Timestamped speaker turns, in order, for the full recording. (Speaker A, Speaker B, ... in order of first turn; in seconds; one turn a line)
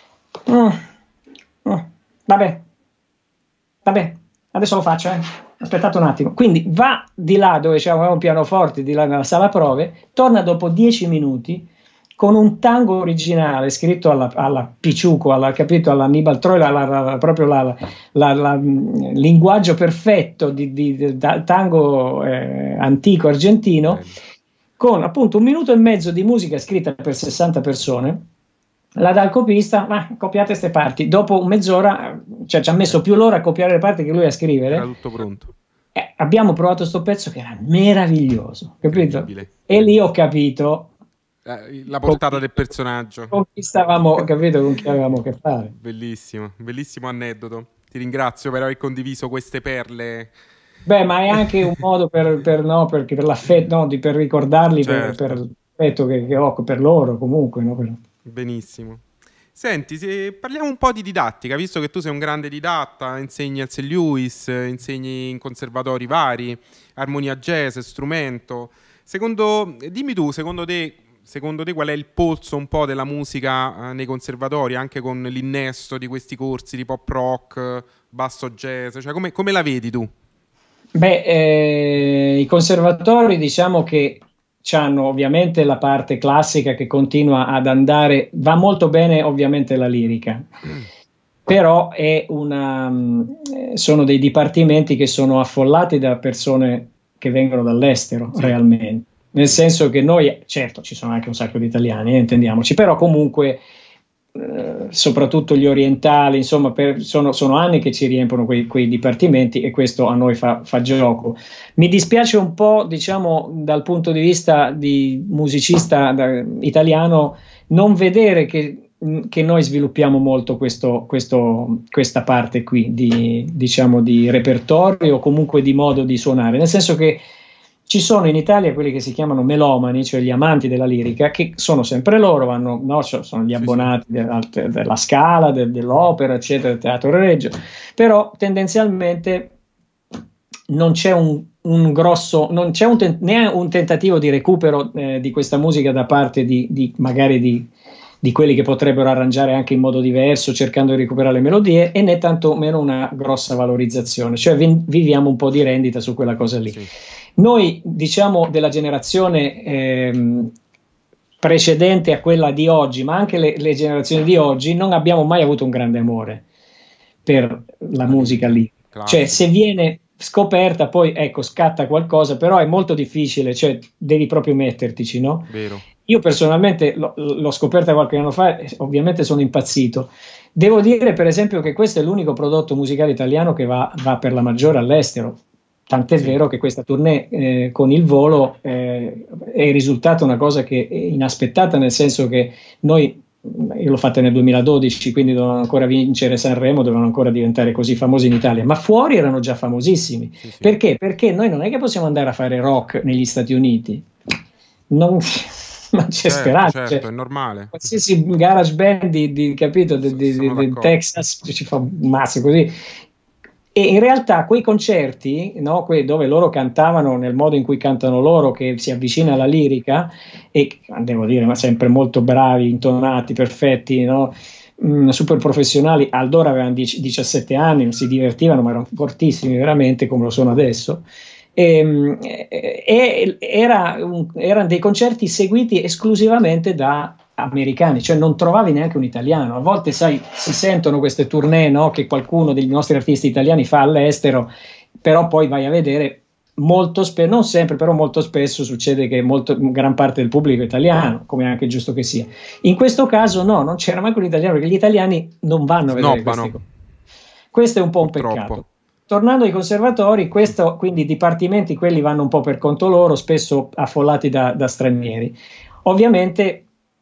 Speaker A: 0.5-0.8
Speaker A: 1.6-2.6
Speaker A: 3.9-11.7
Speaker A: 12.2-24.0
Speaker B: 23.9-24.1
Speaker A: 24.8-28.2
Speaker A: 29.0-34.9
Speaker B: 34.7-35.5
Speaker A: 36.0-40.9
Speaker B: 38.9-39.7
Speaker B: 41.5-43.4
Speaker A: 42.0-42.4
Speaker A: 43.3-45.7
Speaker B: 45.8-50.3
Speaker A: 50.9-58.0
Speaker B: 54.8-55.4
Speaker B: 58.2-59.0
Speaker B: 59.5-80.1
Speaker A: 81.0-90.5
Speaker A: 91.5-103.6
Speaker A: 104.3-127.2
Speaker A: 127.9-139.5
Speaker B: 133.5-133.9
Speaker A: 140.7-147.7
Speaker A: 148.2-156.9
Speaker A: 157.4-160.5
Speaker A: 161.4-166.4
Speaker A: 167.2-175.5
Speaker B: 168.0-169.5
Speaker B: 175.5-175.8
Speaker A: 176.1-204.1
Speaker B: 200.4-200.7
Speaker A: 204.9-207.0
Speaker B: 206.2-207.7
Speaker A: 207.7-212.7
Speaker B: 210.0-210.9
Speaker A: 213.8-231.0
Speaker A: 231.6-244.5
Speaker A: 245.0-256.6
Speaker B: 255.8-256.6
Speaker A: 257.5-266.7
Speaker B: 258.0-258.6